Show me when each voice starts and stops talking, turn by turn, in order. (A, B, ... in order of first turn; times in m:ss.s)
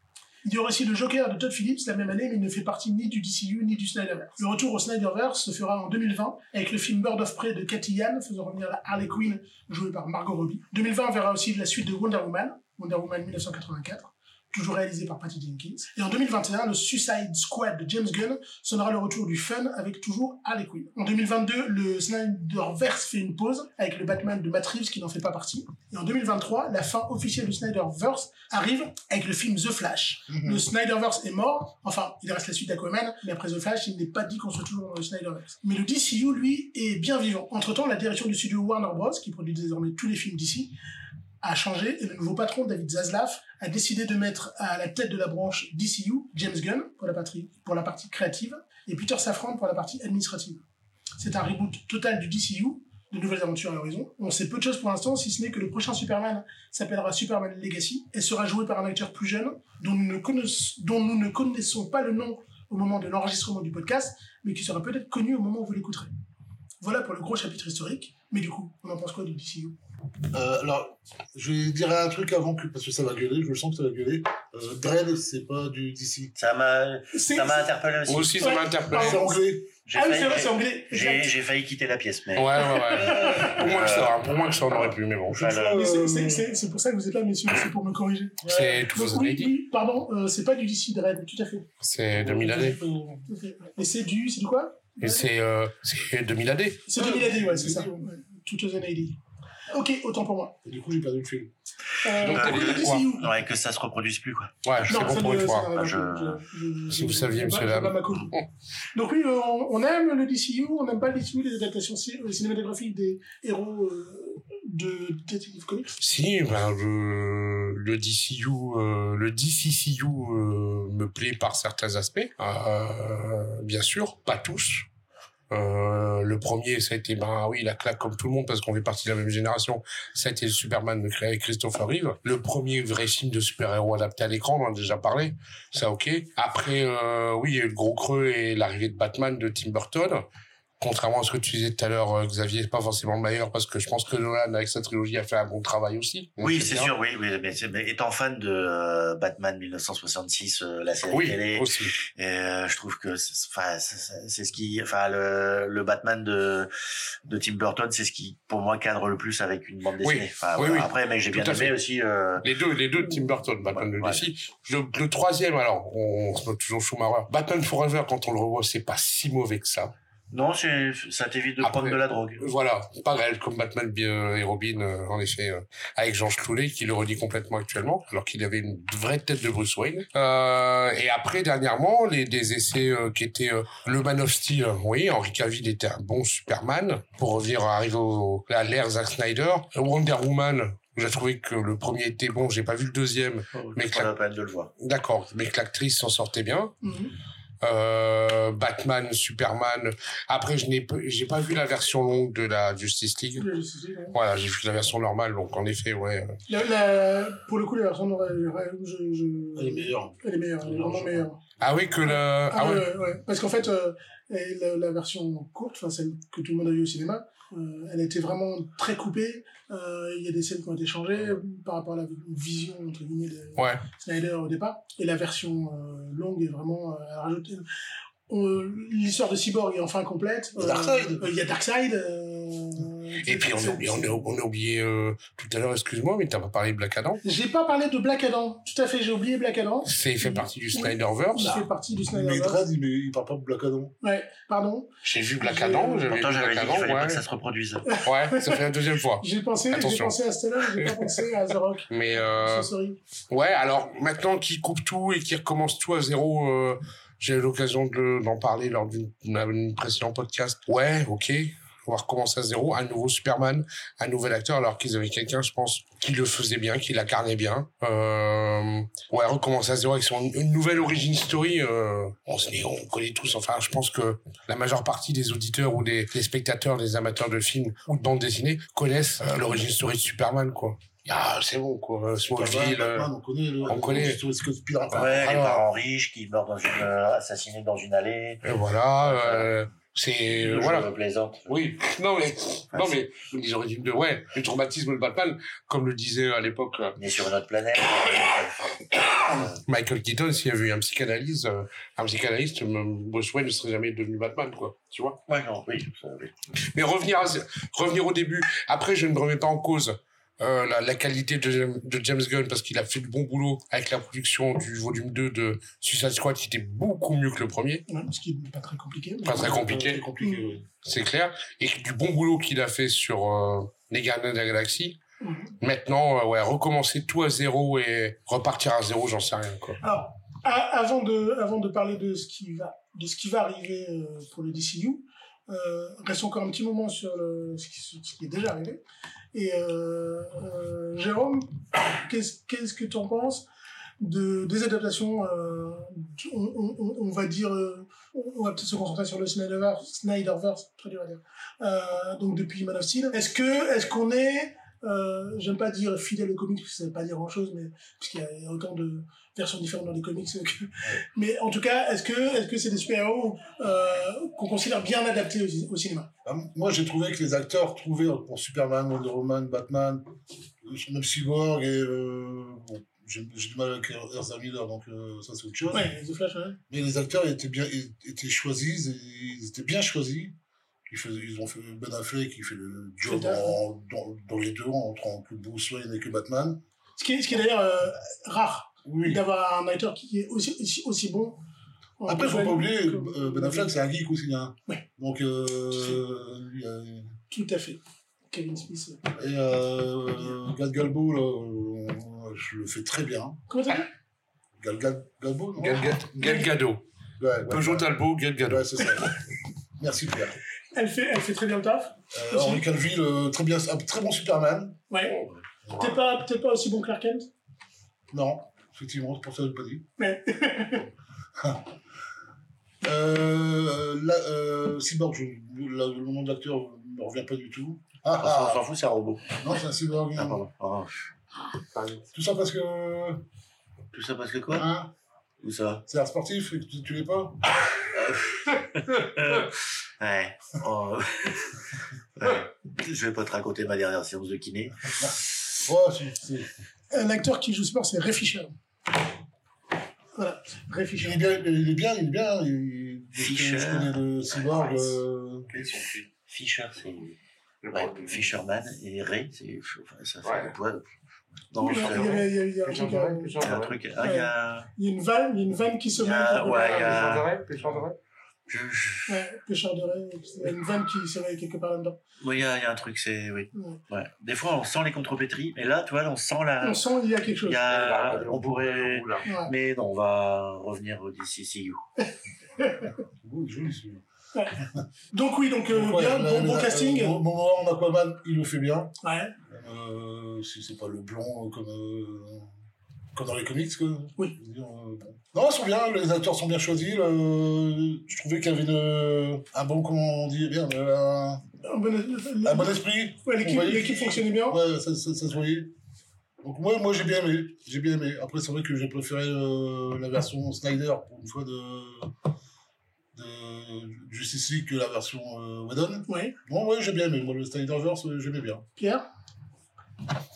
0:00.4-0:40.7 A
0:30.3-0:30.6 B
0:41.4-0:50.6 A
0:51.2-1:06.1 A
1:06.8-1:09.8 A
1:10.3-1:16.3 B
1:16.4-1:18.6 C
1:17.1-1:17.7 A
1:18.1-1:19.2 D
1:18.4-1:19.4 A
1:18.9-1:19.7 B
1:19.8-1:25.8 C
1:19.9-1:21.3 A
1:22.3-1:25.4 D
1:22.8-1:23.6 A
1:25.3-1:26.5 B
1:25.7-1:31.7 A
1:28.4-1:28.9 B
1:28.5-1:29.5 D
1:31.8-1:32.8 D
1:32.1-1:33.2 B
1:33.3-1:35.2 A
1:35.0-1:36.9 D
1:36.8-1:40.6 A
1:37.0-1:38.1 B
1:40.6-1:41.5 B
1:42.0-1:43.3 A
1:42.1-1:43.1 D
1:42.2-1:46.4 C
1:44.6-1:45.7 D
1:44.8-1:48.4 A
1:46.9-1:48.4 D
1:48.9-1:56.0 A
1:56.0-2:04.9 D
2:05.5-2:20.2 D
2:20.8-2:26.9 D
2:26.4-2:36.7 C
2:31.1-2:31.9 D
2:37.2-2:42.5 C
2:40.0-2:41.7 D
2:42.4-2:49.9 D
2:43.0-2:44.3 C
2:50.3-2:52.4 C
2:51.6-3:14.1 D
3:13.5-3:14.7 C
3:14.8-3:16.7 D
3:16.8-3:17.1 A
3:17.6-3:23.4 D
3:23.4-3:24.2 A
3:24.1-3:26.4 D
3:26.5-3:31.4 A
3:29.5-3:31.7 B
3:31.6-3:32.9 D
3:32.0-3:47.6 A
3:43.6-3:43.8 D
3:48.3-3:54.2 A
3:50.6-3:51.3 B
3:53.2-3:57.2 D
3:57.2-4:02.6 A
3:59.8-4:01.6 D
4:01.4-4:03.9 B
4:04.0-4:06.1 A
4:05.0-4:07.2 D
4:06.1-4:08.0 C
4:07.9-4:13.0 A
4:08.0-4:11.2 D
4:11.9-4:12.7 D
4:13.3-4:43.1 D
4:42.3-4:45.4 B
4:43.6-4:44.2 D
4:44.9-4:48.4 C
4:44.9-4:45.6 D
4:48.4-4:50.9 D
4:49.0-4:49.6 C
4:50.3-4:51.5 C
4:51.5-4:57.0 D
4:52.7-4:53.0 C
4:57.0-4:59.6 C
4:59.4-5:05.2 D
5:05.3-5:06.3 C
5:06.6-5:17.8 D
5:17.9-5:19.5 A
5:19.2-5:20.0 D
5:19.2-5:20.6 B
5:20.2-5:20.5 A
5:20.8-5:25.0 D
5:25.2-5:25.6 A
5:25.6-5:29.8 D
5:29.8-5:38.8 A
5:39.3-5:43.5 A
5:44.0-6:06.1 A
6:06.2-6:10.0 B
6:10.6-6:15.9 B
6:15.7-6:16.6 A
6:16.7-6:20.4 B
6:20.9-6:26.6 B
6:23.0-6:23.6 A
6:27.0-6:31.4 A
6:28.8-6:29.2 B
6:32.0-6:33.7 A
6:32.1-6:37.1 B
6:37.3-6:39.1 A
6:39.1-6:43.4 B
6:43.5-6:43.9 A
6:44.6-6:46.5 B
6:45.6-6:46.8 D
6:46.2-6:46.5 A
6:47.2-6:49.2 B
6:47.5-6:49.0 D
6:49.8-6:50.4 B
6:50.7-6:52.6 A
6:52.1-6:54.8 B
6:54.9-6:55.2 A
6:55.8-6:57.3 A
6:58.1-6:59.9 B
7:00.0-7:00.9 A
7:01.4-7:01.7 B
7:02.8-7:08.6 B
7:08.2-7:09.4 C
7:09.3-7:10.4 B
7:10.2-7:11.1 C
7:11.7-7:12.0 D
7:12.1-7:13.2 B
7:13.9-7:14.7 C
7:14.5-7:14.9 B
7:15.4-7:15.8 C
7:15.8-7:17.6 B
7:17.7-7:21.6 C
7:22.2-7:25.1 C
7:25.0-7:26.5 B
7:26.9-7:28.5 A
7:30.1-7:31.2 A
7:31.0-7:35.5 B
7:33.2-7:35.0 C
7:35.5-7:36.0 D
7:35.6-7:37.2 C
7:37.6-7:38.3 D
7:37.7-7:40.8 C
7:40.2-7:40.5 D
7:41.5-7:42.3 C
7:41.6-7:43.4 A
7:41.6-7:43.8 D
7:43.4-7:44.7 C
7:44.0-7:47.0 A
7:45.9-7:47.8 C
7:46.5-7:48.0 D
7:48.5-7:49.1 C
7:49.1-7:52.0 A
7:52.2-7:56.9 C
7:53.5-7:53.8 A
7:56.6-7:57.6 A
7:57.4-8:01.8 C
7:57.6-7:59.2 D
7:59.2-7:59.5 A
8:02.0-8:02.9 A
8:02.9-8:04.0 B
8:04.6-8:04.8 B
8:05.1-8:07.2 A
8:05.7-8:08.9 B
8:09.0-8:09.3 A
8:09.5-8:12.5 B
8:13.1-8:21.5 B
8:21.6-8:24.6 A
8:22.4-8:25.7 B
8:26.4-8:32.1 B
8:33.1-8:38.6 B
8:36.1-8:36.4 A
8:38.8-8:39.0 A